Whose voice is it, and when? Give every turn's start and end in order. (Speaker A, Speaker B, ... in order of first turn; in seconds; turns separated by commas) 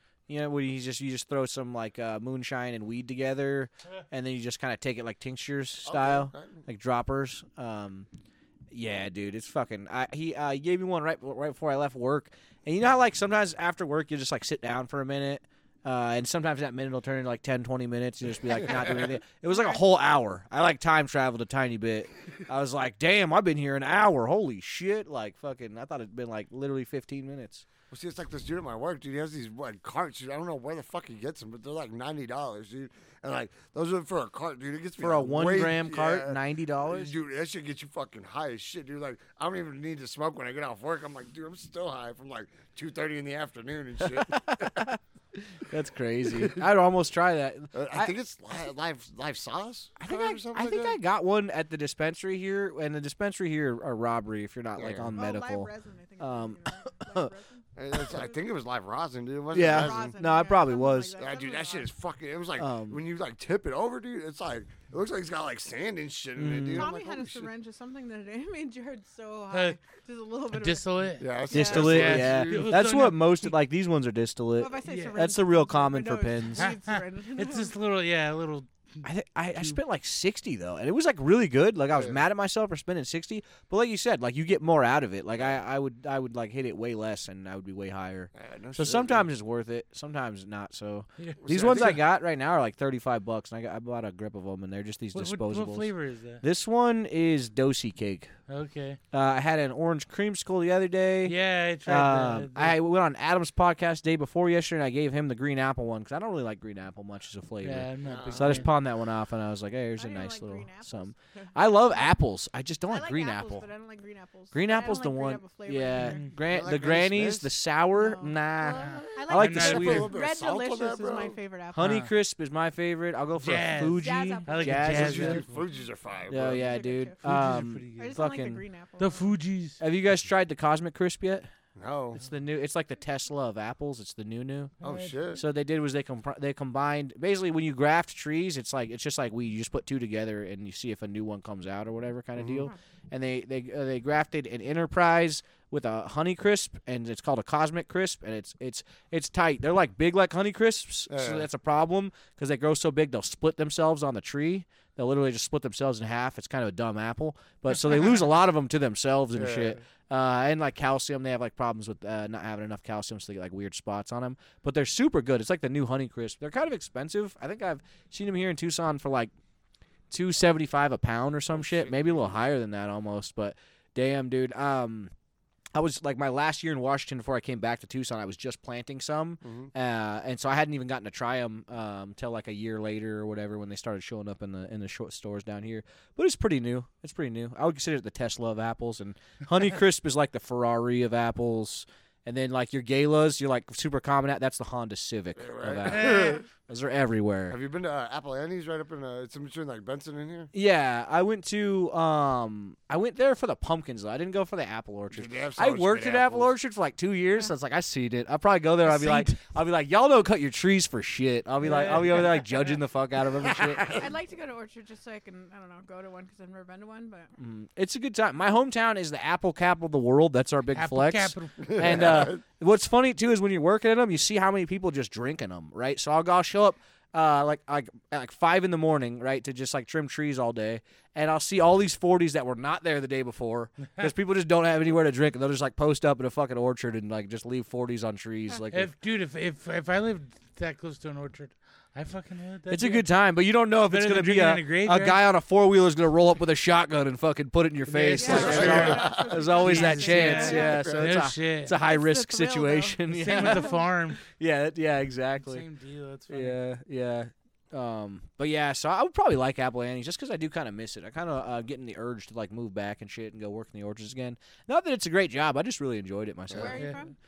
Speaker A: 0.3-8.1, Speaker B: 5.8-6.6, Speaker A: 8.7-27.6, Speaker B: 18.6-19.1, Speaker C: 19.5-19.8, Speaker B: 27.9-44.9, Speaker A: 35.0-37.1, Speaker A: 44.0-48.1, Speaker B: 46.3-46.6, Speaker B: 47.7-51.0, Speaker A: 50.0-57.3, Speaker B: 54.8-55.1, Speaker C: 55.1-58.3, Speaker B: 57.8-60.1, Speaker A: 59.5-61.1, Speaker C: 59.6-61.9, Speaker B: 61.2-67.5, Speaker A: 62.6-63.0, Speaker A: 66.3-66.9, Speaker C: 66.7-71.9, Speaker D: 69.5-69.8, Speaker D: 70.5-73.5, Speaker B: 71.2-72.8, Speaker A: 71.5-76.7, Speaker C: 74.6-77.7, Speaker D: 74.8-75.2, Speaker D: 76.5-78.7, Speaker A: 79.0-95.9, Speaker B: 81.9-82.2, Speaker B: 88.3-89.3, Speaker B: 91.4-92.0, Speaker D: 95.1-96.4, Speaker A: 96.4-98.3, Speaker D: 98.5-99.0, Speaker A: 99.1-113.7, Speaker D: 101.2-102.8, Speaker D: 107.6-108.7, Speaker B: 108.0-108.7, Speaker C: 110.0-112.1, Speaker C: 112.9-116.3, Speaker A: 114.5-120.1, Speaker D: 115.9-116.3, Speaker B: 116.5-117.5, Speaker C: 118.0-122.0, Speaker D: 118.8-120.1, Speaker B: 119.4-121.4, Speaker A: 121.7-125.4, Speaker D: 121.8-122.1, Speaker D: 123.4-125.6, Speaker C: 123.8-125.0, Speaker B: 124.8-126.7, Speaker A: 126.3-128.6, Speaker C: 126.4-127.2, Speaker D: 127.2-128.2, Speaker C: 128.0-129.3, Speaker D: 129.0-129.8, Speaker A: 129.8-131.5, Speaker B: 131.8-132.2, Speaker A: 132.1-134.7, Speaker D: 134.8-135.2, Speaker B: 134.8-135.4, Speaker A: 135.3-169.3, Speaker B: 142.3-142.7, Speaker B: 151.1-151.4, Speaker B: 159.3-159.8, Speaker A: 170.1-175.1, Speaker B: 171.5-172.4, Speaker A: 175.7-197.6, Speaker B: 179.4-179.7, Speaker B: 195.4-196.4, Speaker D: 195.9-196.4, Speaker B: 197.5-200.5, Speaker A: 200.5-214.0, Speaker B: 205.1-206.5, Speaker D: 208.8-209.4, Speaker D: 211.6-212.7, Speaker B: 213.4-214.1, Speaker C: 213.9-217.3, Speaker A: 217.4-238.9, Speaker D: 220.7-221.7, Speaker B: 221.6-222.4, Speaker D: 238.7-243.1, Speaker A: 242.7-255.6, Speaker D: 243.9-245.2, Speaker D: 247.9-251.7, Speaker C: 248.2-250.9, Speaker B: 248.2-249.5, Speaker B: 250.4-251.2, Speaker C: 251.7-253.8, Speaker D: 253.1-254.2, Speaker D: 255.4-256.6, Speaker A: 256.3-266.9, Speaker B: 266.5-266.8, Speaker C: 266.5-267.1